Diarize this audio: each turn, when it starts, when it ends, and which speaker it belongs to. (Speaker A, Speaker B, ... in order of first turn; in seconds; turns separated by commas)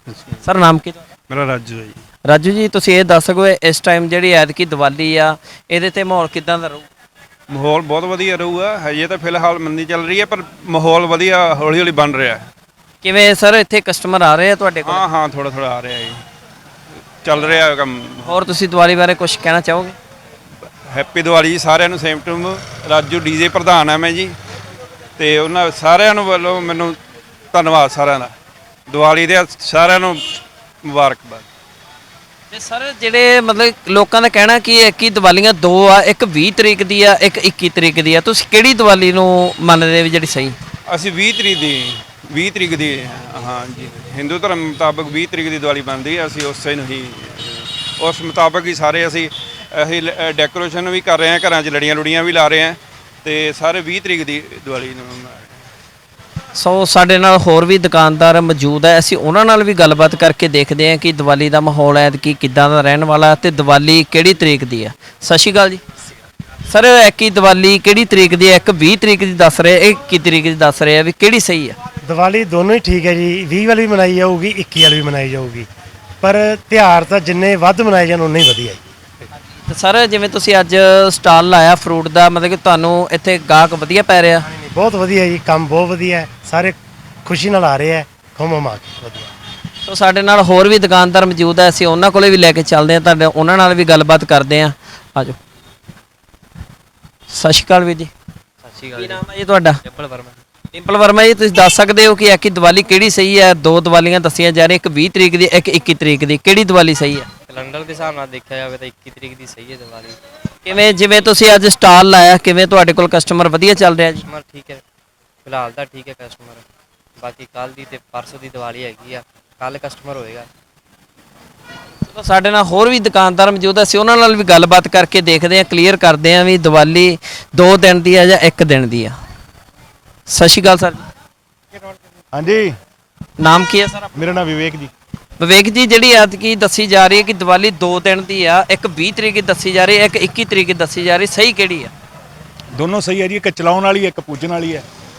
Speaker A: 0.4-1.0, Speaker B: 1.3-2.0, Speaker A: 2.3-6.8, Speaker B: 7.5-12.4, Speaker A: 13.0-15.0, Speaker B: 14.8-16.2, Speaker B: 17.2-18.3, Speaker A: 18.2-19.9, Speaker B: 20.9-24.3, Speaker B: 25.2-27.0, Speaker B: 27.5-28.3, Speaker B: 28.9-31.4, Speaker A: 32.5-40.5, Speaker B: 40.9-55.5, Speaker A: 56.5-65.8, Speaker A: 66.7-71.8, Speaker C: 72.0-75.7, Speaker C: 76.2-78.8, Speaker A: 79.7-84.4, Speaker C: 84.4-89.3, Speaker A: 89.8-95.3, Speaker A: 97.3-98.1, Speaker D: 98.6-99.2, Speaker A: 99.0-99.8, Speaker D: 99.8-100.4, Speaker A: 100.7-107.3, Speaker D: 107.5-110.2, Speaker A: 110.7-114.2, Speaker D: 114.2-114.8, Speaker D: 115.4-116.6, Speaker D: 117.2-120.5, Speaker A: 122.0-129.1, Speaker A: 130.3-131.0, Speaker E: 132.3-132.7, Speaker A: 133.4-134.1, Speaker E: 134.1-134.9, Speaker A: 135.4-141.9, Speaker E: 142.8-144.8